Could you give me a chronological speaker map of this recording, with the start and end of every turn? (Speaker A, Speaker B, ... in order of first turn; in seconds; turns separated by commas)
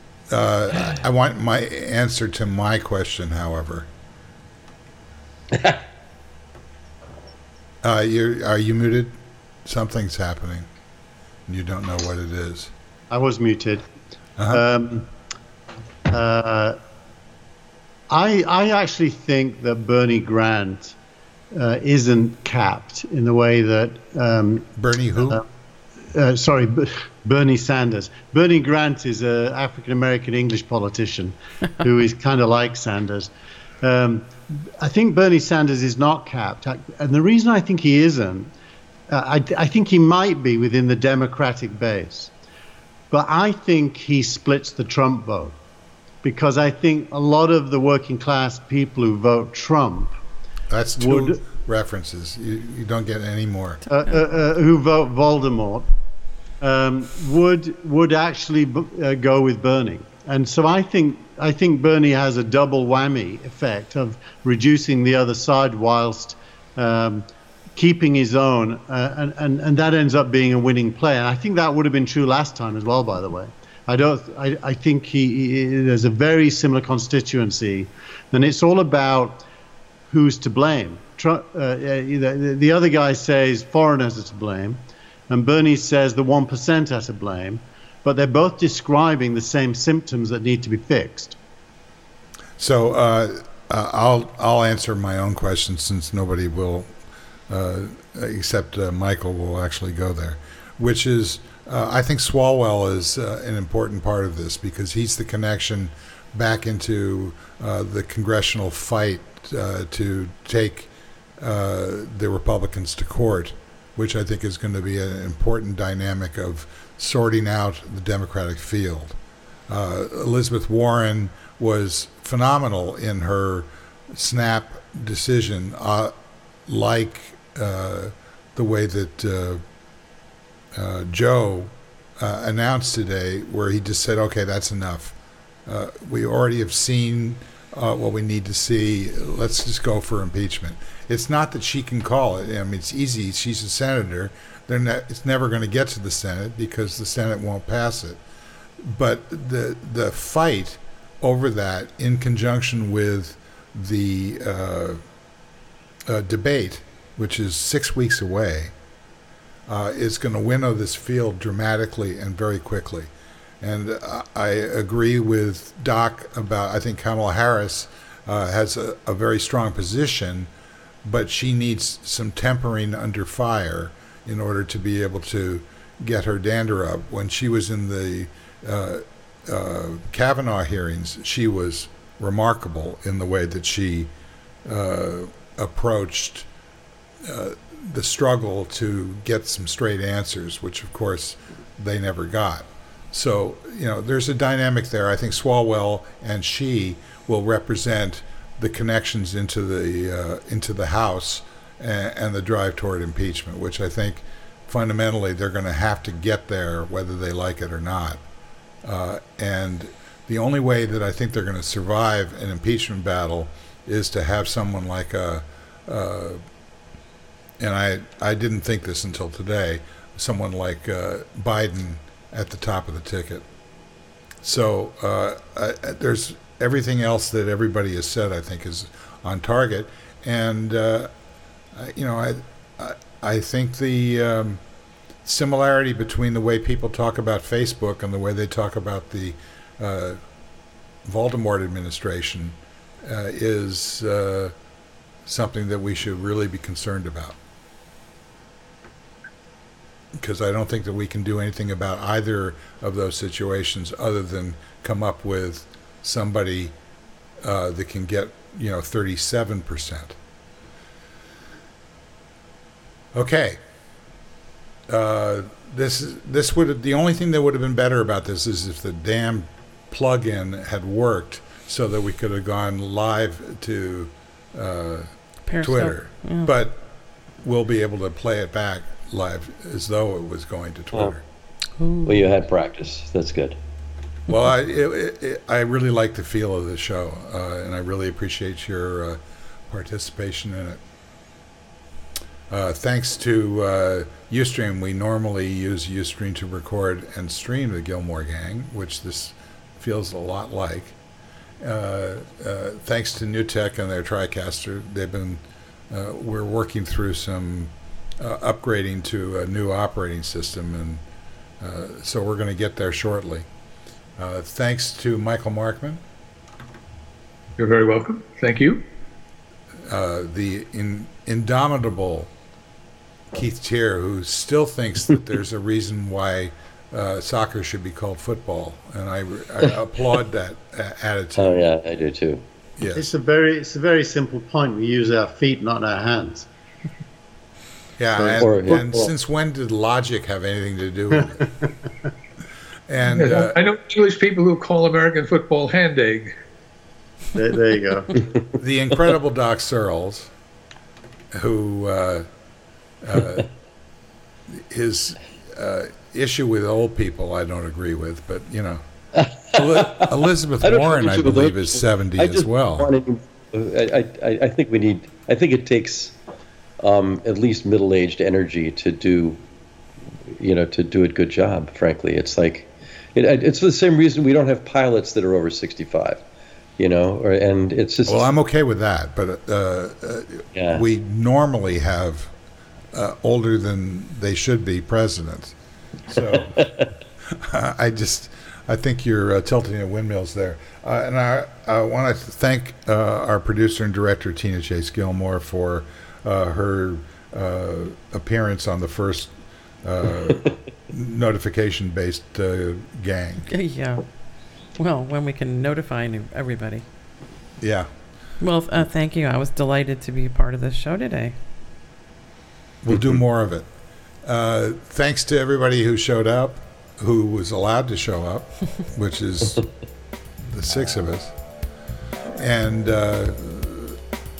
Speaker A: 0.3-3.9, Speaker B: 5.5-5.8, Speaker A: 7.8-10.7, Speaker A: 11.5-12.7, Speaker C: 13.1-13.8, Speaker C: 14.5-15.1, Speaker C: 16.1-16.8, Speaker C: 18.1-21.0, Speaker C: 21.5-25.4, Speaker A: 24.8-25.4, Speaker C: 26.1-33.3, Speaker C: 33.8-38.5, Speaker C: 39.1-42.3, Speaker C: 43.1-45.5, Speaker C: 46.2-50.1, Speaker A: 50.7-53.8, Speaker C: 51.0-51.4, Speaker C: 53.9-55.9, Speaker C: 56.6-79.4, Speaker C: 80.1-91.4, Speaker A: 92.6-96.9, Speaker A: 97.5-119.2, Speaker A: 119.7-126.1, Speaker A: 126.7-129.6, Speaker A: 130.7-135.1, Speaker A: 135.7-148.2, Speaker A: 148.8-155.0, Speaker A: 156.1-158.7, Speaker A: 159.7-163.1, Speaker A: 163.6-170.5, Speaker A: 171.0-184.1, Speaker A: 184.7-186.5, Speaker A: 187.2-208.2, Speaker A: 208.8-216.4, Speaker A: 217.6-223.4, Speaker A: 224.4-231.1, Speaker A: 231.7-234.6, Speaker A: 235.2-240.2, Speaker A: 241.0-244.5, Speaker A: 245.2-247.4, Speaker A: 250.2-256.7, Speaker A: 257.4-260.2, Speaker A: 263.1-263.6, Speaker A: 264.9-275.1, Speaker D: 275.5-276.5, Speaker A: 275.6-276.8, Speaker A: 277.4-281.2, Speaker D: 281.8-282.3, Speaker B: 282.1-283.6, Speaker A: 284.3-290.8, Speaker A: 292.5-300.9, Speaker A: 301.6-311.0, Speaker A: 311.6-313.4, Speaker A: 314.2-316.0, Speaker E: 317.6-318.8, Speaker A: 319.9-322.3, Speaker A: 323.3-331.6, Speaker B: 331.4-332.4, Speaker A: 332.8-333.1, Speaker C: 332.9-336.5, Speaker A: 338.0-341.5, Speaker B: 338.2-339.1, Speaker A: 342.9-343.6, Speaker E: 343.1-346.3, Speaker C: 347.3-348.2, Speaker A: 348.5-350.3, Speaker A: 351.3-352.2, Speaker A: 353.0-353.5, Speaker A: 354.5-358.8, Speaker B: 359.1-360.1, Speaker A: 359.5-362.9, Speaker B: 360.6-366.1, Speaker B: 366.8-369.4, Speaker B: 370.3-376.2, Speaker B: 376.8-378.3, Speaker A: 378.1-382.3, Speaker B: 380.5-380.8, Speaker A: 382.9-385.6, Speaker A: 386.1-386.7, Speaker B: 386.5-386.9, Speaker A: 387.3-399.3, Speaker A: 399.8-403.5, Speaker D: 403.5-404.0, Speaker D: 404.8-406.8, Speaker A: 407.6-407.9, Speaker D: 408.4-411.4, Speaker A: 412.8-413.7, Speaker A: 414.2-419.6, Speaker A: 420.4-421.3, Speaker A: 422.3-424.0